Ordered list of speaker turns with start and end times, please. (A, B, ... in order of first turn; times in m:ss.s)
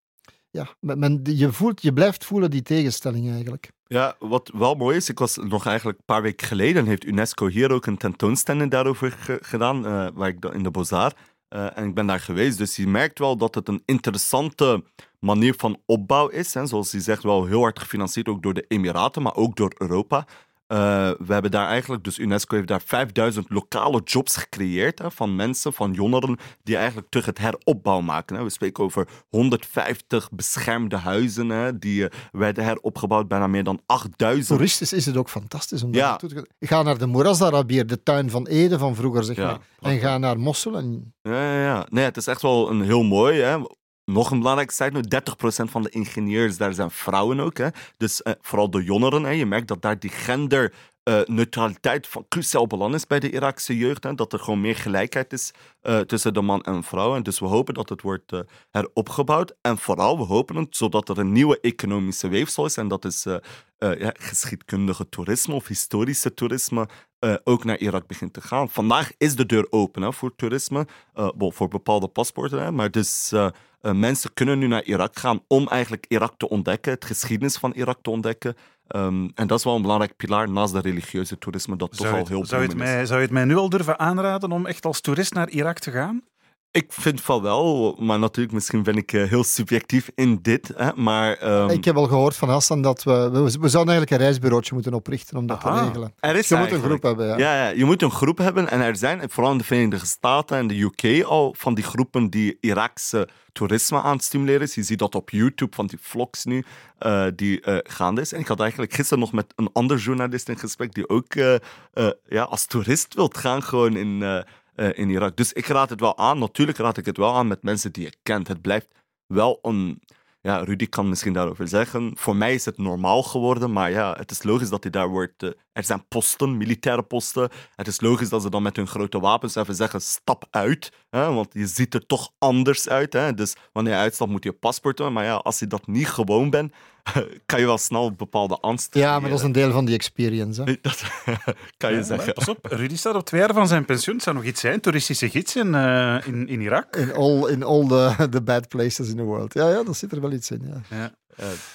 0:00.5-0:03.7 A
0:03.9-0:34.6 B
0:34.5-0:41.1 A
0:35.9-0:36.2 B
0:39.4-0:40.1 B
0:41.2-1:22.9 B
1:21.9-1:26.2 C
1:26.7-1:31.8 B
1:31.7-1:37.4 A
1:35.5-1:36.0 C
1:36.2-2:19.5 B
2:18.9-2:20.7 A
2:20.6-2:22.5 B
2:21.9-2:27.1 C
2:26.9-2:30.9 A